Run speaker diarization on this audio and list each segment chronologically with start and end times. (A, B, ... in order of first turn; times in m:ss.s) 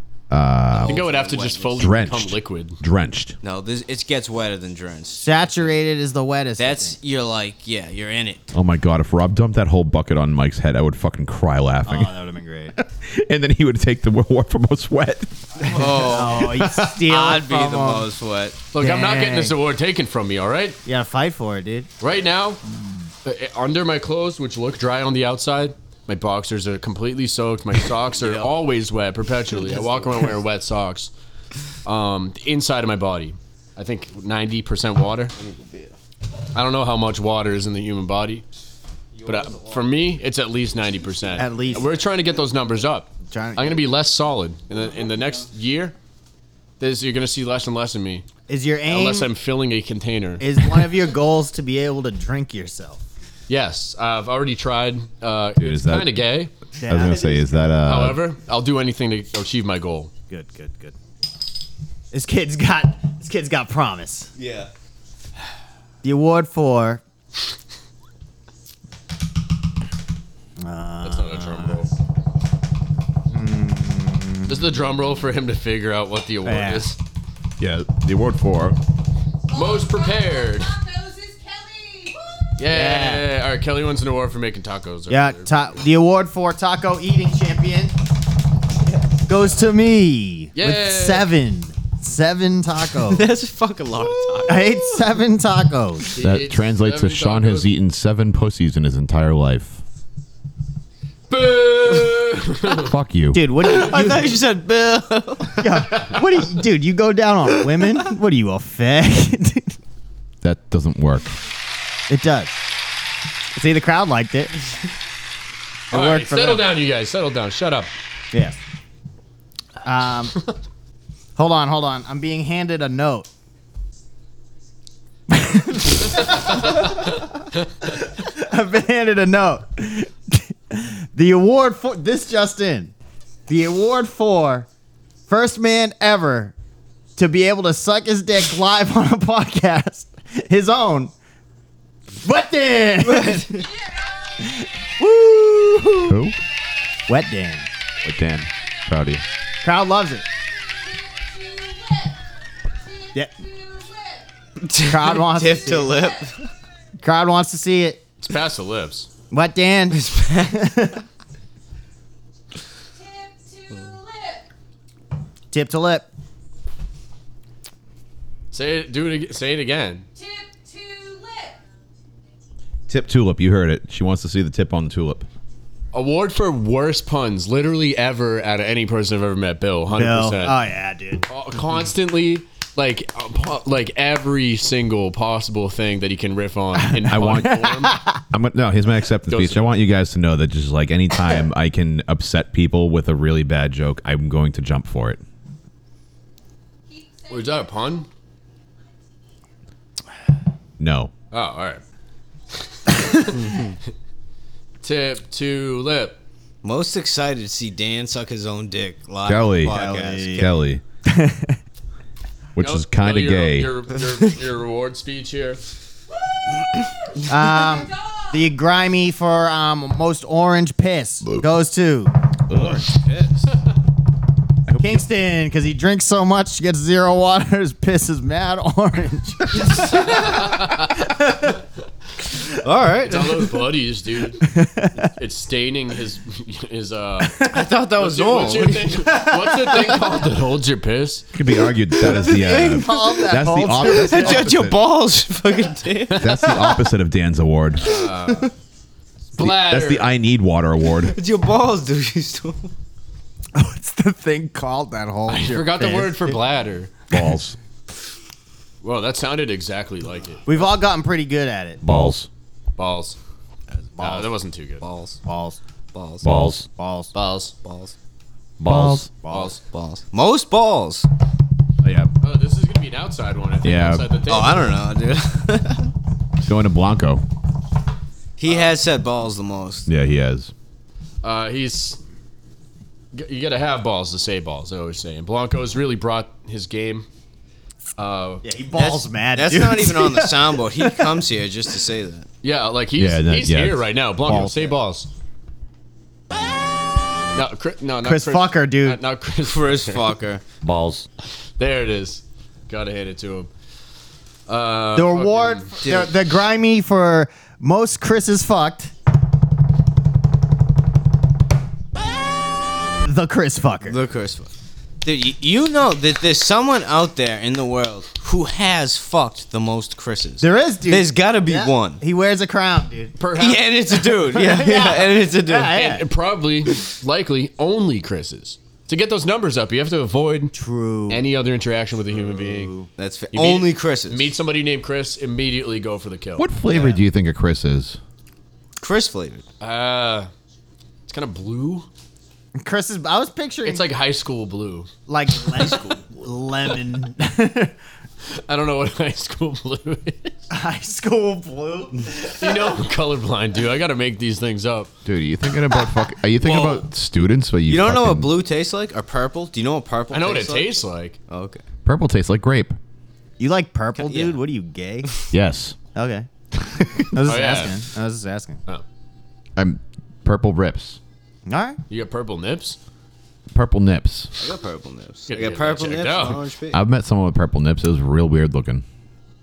0:00.3-0:01.0 A
0:00.7-0:02.0 B
0:00.8-0:02.8 C
0:01.8-0:03.4 A
0:03.4-0:05.6 B
0:05.2-0:07.0 D
0:06.6-0:08.5 B
0:08.5-0:12.1 A
0:11.8-0:12.7 D
0:12.8-0:15.6 A
0:15.6-0:16.5 B
0:15.6-0:18.1 D
0:16.3-0:17.0 A
0:17.0-0:18.6 B
0:18.7-0:20.8 C
0:18.8-0:19.5 D
0:20.8-0:21.9 D
0:22.0-0:22.6 C
0:23.2-0:31.1 C
0:28.2-0:28.5 B
0:29.7-0:30.2 B
0:31.8-0:35.3 C
0:35.4-0:35.9 B
0:36.5-0:38.4 C
0:39.2-0:39.8 B
0:39.2-0:45.9 C
0:41.4-0:41.9 D
0:43.3-0:43.8 D
0:46.8-0:48.2 C
0:48.5-0:49.3 D
0:48.9-0:50.8 C
0:50.4-0:53.0 D
0:53.5-0:56.5 C
0:55.6-0:56.2 A
0:56.8-0:57.6 D
0:56.9-0:58.2 A
0:56.9-0:57.5 B
0:57.8-1:00.1 C
1:00.3-1:00.9 D
1:02.1-1:04.3 D
1:04.4-1:04.7 B
1:06.0-1:07.0 D
1:10.6-1:11.8 D
1:11.0-1:11.9 C
1:13.3-1:14.7 D
1:14.5-1:17.0 C
1:16.4-1:16.9 D
1:17.6-1:18.8 A
1:19.5-1:20.8 C
1:20.8-1:22.4 E
1:22.6-1:25.5 C
1:22.7-1:23.2 D
1:25.1-1:27.9 D
1:29.2-1:33.3 D
1:30.5-1:31.3 C
1:33.0-1:35.0 B
1:34.4-1:36.1 D
1:36.1-1:37.7 C
1:36.2-1:39.8 A
1:41.3-1:42.9 C
1:42.7-1:43.4 A
1:43.3-1:44.3 D
1:43.6-1:46.0 B
1:45.6-1:49.8 D
1:50.4-1:51.4 A
1:52.1-1:52.6 D
1:53.5-1:54.5 D
1:55.9-1:56.6 D
1:55.9-1:57.9 C
1:58.3-1:58.6 D
1:59.8-2:00.3 D
2:01.4-2:03.3 D
2:05.3-2:07.2 D
2:06.3-2:06.9 C
2:07.8-2:12.9 D
2:13.5-2:14.7 D
2:15.3-2:16.5 D
2:17.2-2:21.1 D
2:22.2-2:23.6 D
2:23.1-2:23.5 B
2:24.4-2:26.2 D
2:26.1-2:26.4 A
2:27.1-2:27.7 D
2:28.0-2:29.2 A
2:29.6-2:30.2 D
2:31.2-2:32.1 E
2:34.6-2:36.5 B
2:34.8-2:36.0 D
2:37.0-2:38.0 D
2:38.2-2:39.1 C
2:39.3-2:41.0 D
2:39.9-2:40.5 B
2:45.5-2:46.1 D
2:48.5-2:50.1 C
2:50.7-2:51.5 E
2:52.9-2:55.3 A
2:55.9-3:00.6 C
2:59.9-3:01.2 D
3:01.3-3:07.9 C
3:07.0-3:08.2 D
3:07.1-3:15.2 A
3:09.3-3:09.8 C
3:17.3-3:18.1 C
3:20.8-3:21.1 A
3:21.3-3:21.8 C
3:22.8-3:23.6 C
3:23.4-3:23.7 B
3:24.8-3:26.2 C
3:26.6-3:30.5 B
3:29.2-3:30.8 A
3:29.6-3:30.5 D
3:31.1-3:31.6 D
3:32.5-3:33.7 A
3:32.6-3:35.6 C
3:37.3-3:42.1 D
3:42.5-3:42.8 A
3:43.0-3:43.5 C
3:44.7-3:45.0 A
3:44.8-3:50.3 D
3:49.6-3:50.2 B
3:49.8-3:51.1 C
3:51.0-3:51.5 D
3:52.6-3:53.5 B
3:53.0-4:01.2 C
3:54.4-3:55.1 D
3:57.2-3:57.6 D
3:57.4-4:00.0 B
3:59.1-3:59.8 D
4:01.3-4:04.8 A
4:01.9-4:06.5 B
4:02.2-4:04.5 D
4:06.1-4:06.6 C
4:06.2-4:08.0 A
4:07.8-4:08.5 C
4:07.9-4:08.5 B
4:09.3-4:10.1 C
4:09.4-4:11.2 A
4:11.0-4:12.7 B
4:13.5-4:16.4 D
4:15.3-4:16.9 C
4:17.1-4:17.6 A
4:18.8-4:20.5 C
4:20.4-4:21.8 D
4:21.8-4:22.3 A
4:22.8-4:23.2 C
4:24.0-4:24.2 D
4:24.0-4:24.8 C
4:24.8-4:25.2 B
4:25.2-4:25.6 D
4:25.9-4:26.4 B
4:26.2-4:26.7 A
4:26.3-4:27.1 D
4:27.1-4:27.6 C
4:27.6-4:27.9 B
4:28.6-4:29.1 A
4:28.6-4:29.5 D
4:29.3-4:29.6 C
4:29.6-4:31.1 B
4:32.2-4:34.8 C
4:33.6-4:34.0 A
4:34.2-4:35.9 B
4:36.4-4:37.2 A
4:38.4-4:39.9 B
4:38.4-4:38.7 C
4:39.9-4:40.5 A
4:41.2-4:42.0 C
4:43.1-4:47.0 C
4:48.0-4:48.4 C
4:48.4-4:51.2 D
4:48.7-4:52.3 B
4:52.4-4:55.1 C
4:53.0-4:54.5 A
4:54.3-4:54.7 D
4:57.3-5:00.1 C
4:58.0-4:59.0 D
4:59.4-5:00.4 B
5:00.6-5:01.1 A
5:01.6-5:03.5 C
5:04.5-5:05.7 C
5:05.0-5:08.9 D
5:05.8-5:06.1 B
5:13.0-5:14.0 D
5:13.9-5:14.5 B
5:15.0-5:22.0 B
5:20.4-5:23.1 D
5:23.2-5:23.7 C
5:23.3-5:25.8 B
5:24.1-5:26.0 D
5:25.7-5:30.5 C
5:30.5-5:31.2 D
5:31.1-5:32.7 C
5:32.1-5:32.9 D
5:32.9-5:34.3 B
5:33.3-5:36.5 C
5:36.4-5:38.0 A
5:36.7-5:37.0 D
5:38.8-5:39.4 B
5:39.6-5:40.3 C
5:41.1-5:41.9 C
5:42.6-5:43.8 D
5:43.6-5:44.9 C
5:45.1-5:47.7 D
5:45.6-5:45.9 B
5:48.4-5:50.3 C
5:50.5-5:52.7 D
5:52.3-5:54.9 C
5:55.0-5:58.3 A
5:56.4-5:56.8 B
5:57.6-6:01.6 B
6:00.1-6:01.2 C
6:01.8-6:02.8 A
6:03.4-6:05.1 D
6:04.0-6:04.4 B
6:05.3-6:05.8 A
6:05.9-6:06.3 D
6:06.9-6:08.6 D
6:07.2-6:07.8 C
6:09.6-6:11.0 A
6:11.5-6:11.8 D
6:11.9-6:12.8 C
6:13.5-6:14.3 A
6:14.4-6:16.8 B
6:15.3-6:16.4 C
6:16.7-6:18.8 A